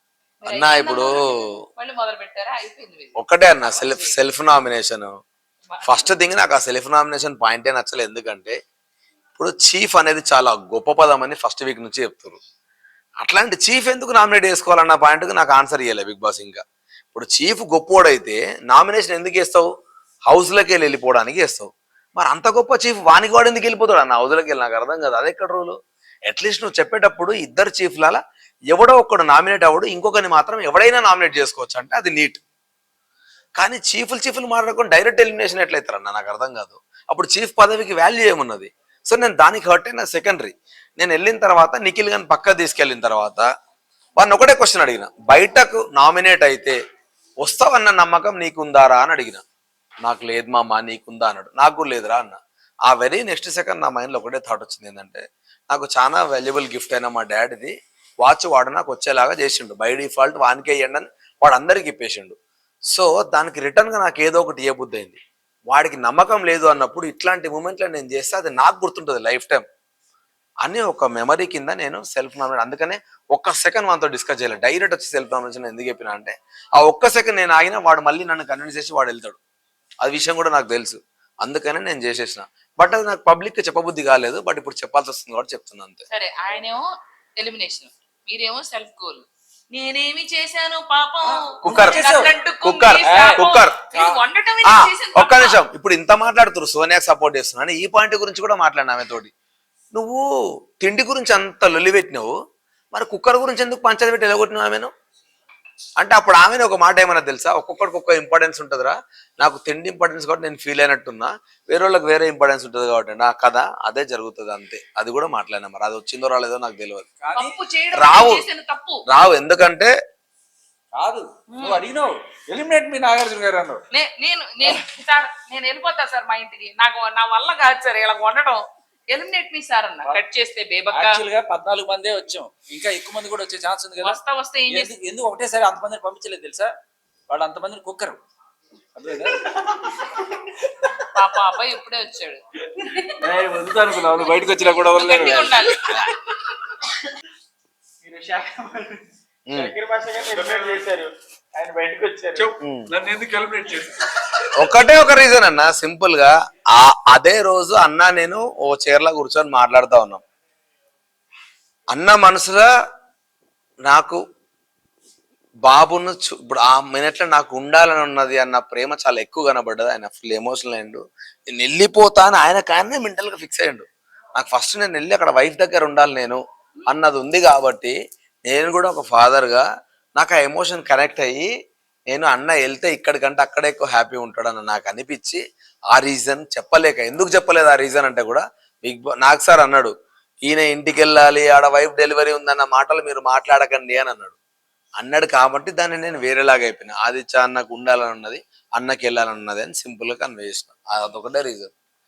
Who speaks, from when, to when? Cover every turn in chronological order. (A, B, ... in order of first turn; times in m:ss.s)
0:00.4-0:04.2 A
0:00.5-0:01.5 B
0:03.2-0:05.2 B
0:05.7-0:06.1 A
0:05.8-0:08.6 B
0:09.4-0:12.4 B
0:13.2-0:16.6 B
0:17.1-0:19.7 B
0:20.3-0:25.8 B
0:26.3-0:32.4 B
0:33.6-0:43.4 B
0:44.2-0:46.8 B
0:47.4-0:49.4 B
0:50.0-1:02.4 B
1:02.9-1:05.2 B
1:05.7-1:09.6 B
1:10.6-1:19.4 B
1:20.0-1:26.0 B
1:26.1-1:26.8 A
1:27.4-1:35.6 A
1:31.2-1:32.3 C
1:31.6-1:32.0 B
1:32.6-1:33.8 B
1:33.0-1:34.2 C
1:34.6-1:39.3 B
1:39.9-1:40.2 B
1:40.8-1:42.3 B
1:42.9-1:44.9 B
1:46.0-1:57.0 B
1:57.2-1:57.5 C
1:57.3-1:59.0 A
1:57.9-1:58.4 B
1:59.1-1:59.9 B
2:00.9-2:03.8 C
2:01.5-2:01.8 A
2:03.9-2:11.2 A
2:10.9-2:16.7 C
2:14.0-2:14.9 A
2:17.3-2:18.2 C
2:19.0-2:19.5 C
2:21.1-2:23.2 A
2:23.2-2:26.1 C
2:24.2-2:26.1 A
2:28.0-2:29.0 D
2:29.5-2:32.5 D
2:30.3-2:30.8 C
2:32.4-2:34.4 C
2:32.6-2:32.9 B
2:34.6-2:40.2 B
2:41.9-2:42.7 B
2:43.9-2:44.2 B
2:45.6-2:53.8 B
2:54.4-2:59.6 B
3:00.2-3:01.5 B
3:02.1-3:09.9 B
3:10.4-3:14.4 B
3:15.0-3:21.7 B